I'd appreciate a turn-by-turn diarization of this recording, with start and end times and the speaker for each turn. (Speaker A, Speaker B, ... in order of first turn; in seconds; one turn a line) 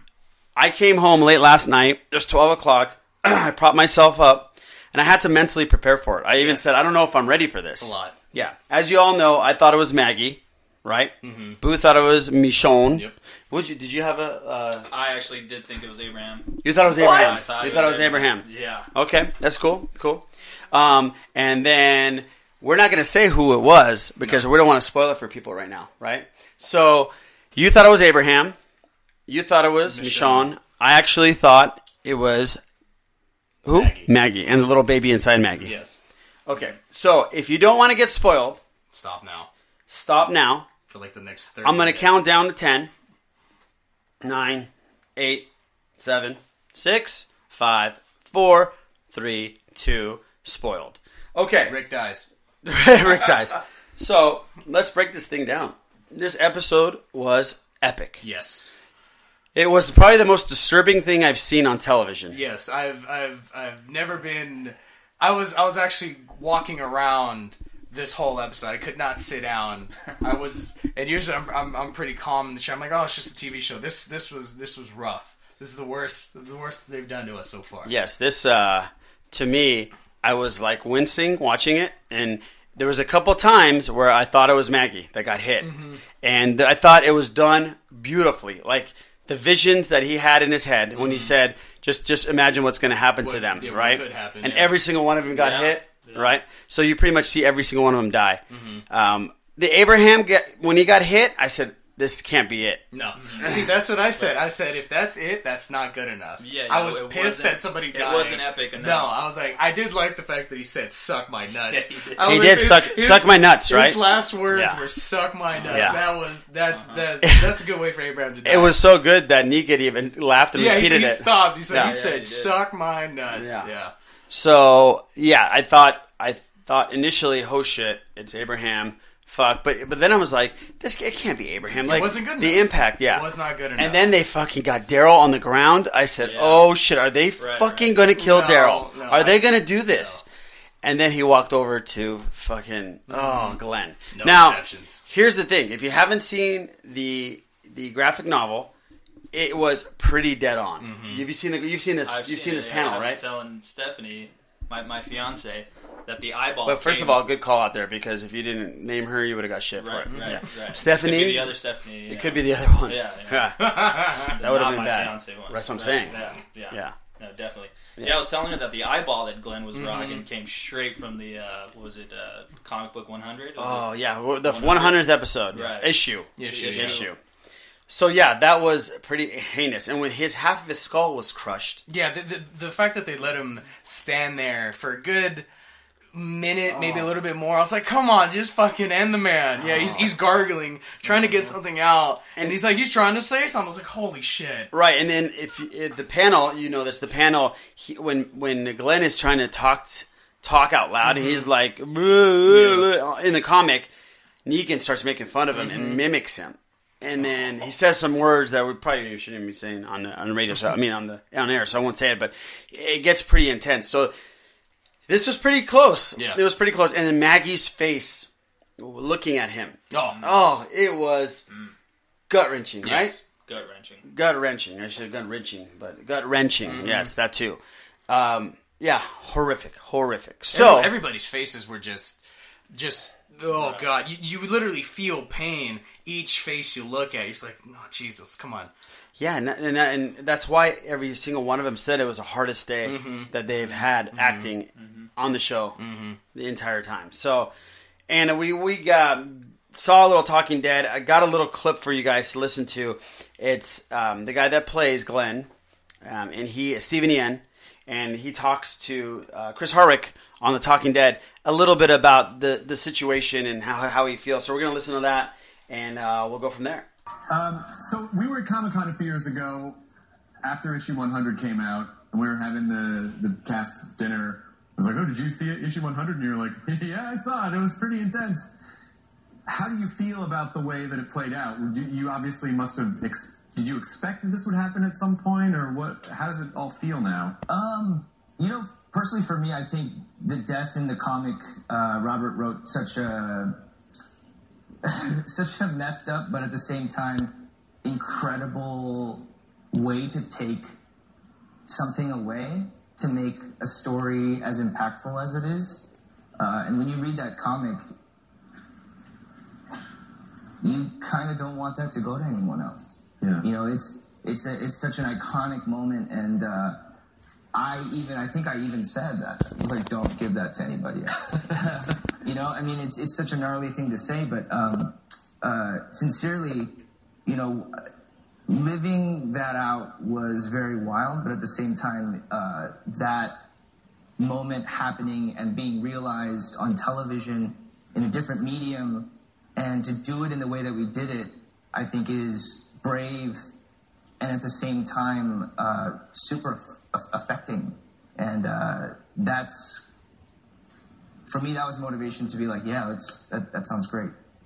Speaker A: 0.6-14.9
Speaker B: 6.4-6.6
Speaker B: 7.8-8.2
Speaker B: 11.2-11.6
Speaker C: 14.9-18.9
Speaker A: 16.6-28.6
Speaker B: 17.0-17.4
Speaker A: 29.3-32.6
Speaker B: 29.8-30.5
Speaker A: 33.6-35.8
Speaker B: 33.7-34.1
Speaker B: 35.6-36.0
Speaker A: 36.5-38.6
Speaker B: 38.9-39.5
Speaker A: 39.9-40.7
Speaker B: 40.9-42.2
Speaker A: 41.6-42.9
Speaker A: 44.2-51.8
Speaker B: 51.6-52.3
Speaker A: 52.6-58.2
Speaker B: 58.2-58.7
Speaker A: 59.5-62.4
Speaker B: 62.3-77.9
Speaker A: 77.8-102.8
Speaker B: 85.6-86.0
Speaker B: 91.0-91.3
Speaker B: 93.2-94.8
Speaker C: 95.3-96.3
Speaker B: 98.5-98.8
Speaker B: 102.9-118.8
Speaker C: 103.2-103.6
Speaker C: 106.4-109.1
Speaker C: 111.7-112.3
Speaker A: 112.2-114.8
Speaker C: 115.7-116.0
Speaker A: 115.7-116.0
Speaker C: 116.7-117.0
Speaker A: 117.2-117.6
Speaker A: 118.4-122.0
Speaker B: 120.5-123.9
Speaker C: 121.7-122.5
Speaker A: 123.3-123.7
Speaker A: 124.3-140.2
Speaker B: 131.8-134.1
Speaker C: 136.2-136.7
Speaker C: 137.4-138.0
Speaker B: 138.1-140.2
Speaker A: 140.8-148.7
Speaker B: 143.1-143.6
Speaker B: 144.1-145.0
Speaker A: 149.3-153.2
Speaker B: 150.8-151.2
Speaker C: 152.0-157.2
Speaker A: 156.7-161.5
Speaker C: 159.8-163.6
Speaker B: 160.1-160.5
Speaker A: 162.1-166.2
Speaker B: 163.6-164.3
Speaker C: 164.2-173.9
Speaker A: 168.0-168.2
Speaker B: 169.7-170.2
Speaker A: 173.6-177.2
Speaker C: 174.4-177.1
Speaker B: 176.4-177.0
Speaker A: 177.9-181.8
Speaker B: 181.9-185.5
Speaker B: 186.1-194.7
Speaker A: 186.7-187.1
Speaker A: 189.6-190.1
Speaker A: 191.1-191.4
Speaker A: 194.7-203.9
Speaker B: 201.1-201.4
Speaker B: 202.5-202.9
Speaker A: 204.4-214.1
Speaker B: 205.6-205.9
Speaker A: 215.1-221.5
Speaker B: 219.9-220.3
Speaker C: 221.5-221.7
Speaker A: 222.3-223.2
Speaker C: 222.8-224.0
Speaker A: 224.0-230.9
Speaker B: 226.6-227.1
Speaker B: 230.5-238.7
Speaker C: 233.5-233.8
Speaker A: 239.2-245.8
Speaker B: 242.8-244.5
Speaker C: 244.8-245.1
Speaker B: 245.8-246.2
Speaker A: 246.3-247.5
Speaker A: 248.1-255.5
Speaker A: 256.0-266.9
Speaker D: 267.3-269.8
Speaker D: 270.4-278.6
Speaker D: 279.5-287.4
Speaker E: 287.5-293.6
Speaker E: 294.8-300.7
Speaker E: 301.6-307.8
Speaker E: 310.6-316.8
Speaker D: 313.2-313.5
Speaker E: 317.5-326.7
Speaker E: 327.2-327.7
Speaker E: 328.5-333.4
Speaker E: 334.2-343.4
Speaker E: 344.2-349.9
Speaker E: 351.2-354.1